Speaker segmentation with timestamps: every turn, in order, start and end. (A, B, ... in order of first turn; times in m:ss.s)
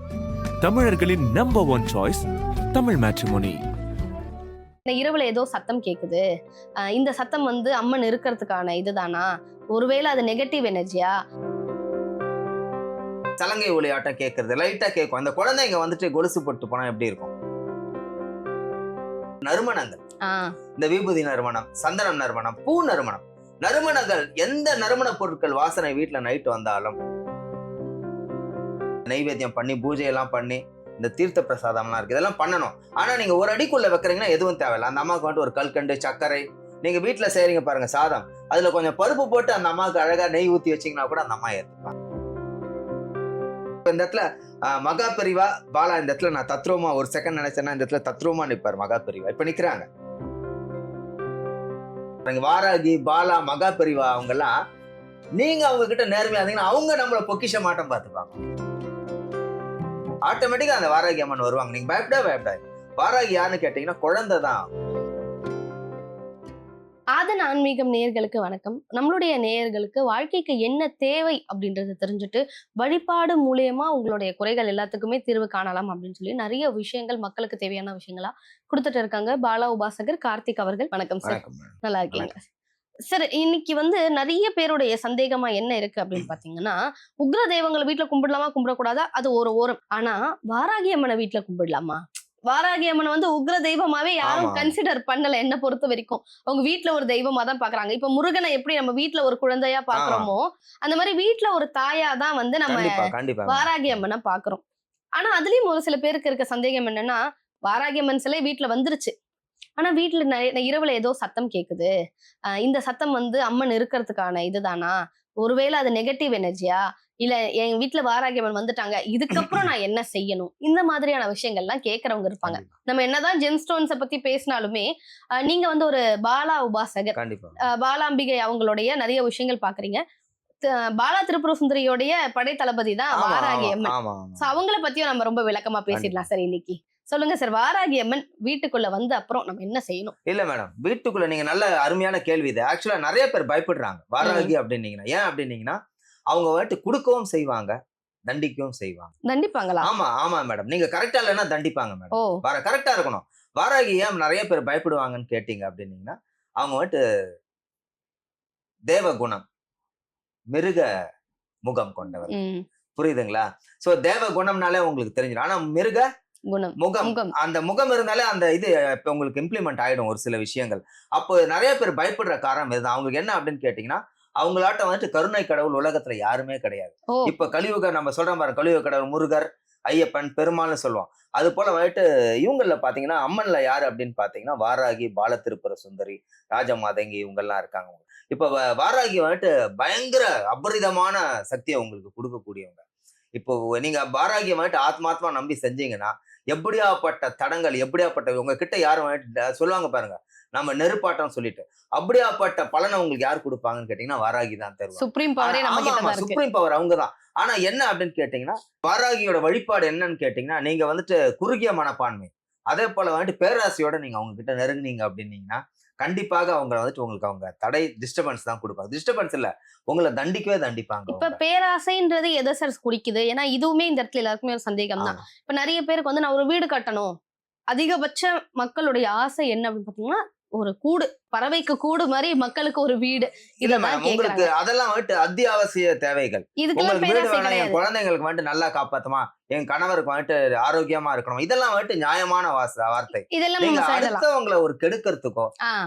0:00.6-0:03.6 A
0:04.8-0:06.2 B
0:06.9-0:11.1 B
0:13.4-0:17.3 C
0:19.4-0:20.0 C
0:20.2-0:20.5 B
0:20.8-0:27.0 C
0:29.1-0:41.9 C
0:43.8-0:49.8 C
0:52.2-0:54.5 C
0:55.4-0:58.4 C
1:00.2-1:04.6 C
1:07.2-1:22.4 B
1:21.2-1:22.3 C
1:23.1-1:44.6 B
1:34.2-1:34.7 C
1:39.9-1:40.3 C
1:42.7-1:43.7 C
1:45.2-1:49.1 B
1:49.8-1:51.9 B
1:52.6-2:04.8 B
2:02.4-2:02.7 C
2:05.4-2:07.1 B
2:07.1-2:07.6 C
2:07.7-2:10.0 B
2:11.0-2:20.1 B
2:13.1-2:14.5 C
2:15.9-2:16.2 C
2:20.2-2:25.8 C
2:24.2-2:24.5 B
2:26.3-2:27.7 C
2:28.3-2:29.1 C
2:29.3-2:29.9 B
2:29.8-2:37.0 C
2:38.9-2:39.4 C
2:40.5-2:40.9 C
2:41.6-2:42.3 C
2:42.2-2:42.6 B
2:43.0-2:46.0 C
2:46.5-2:47.3 B
2:46.8-3:12.8 C
2:57.1-2:57.4 B
3:13.3-3:41.4 C
3:25.0-3:26.4 B
3:41.1-3:47.1 B
3:47.7-3:54.5 B
3:53.6-4:05.5 C
3:56.6-3:57.8 B
4:03.3-4:04.2 B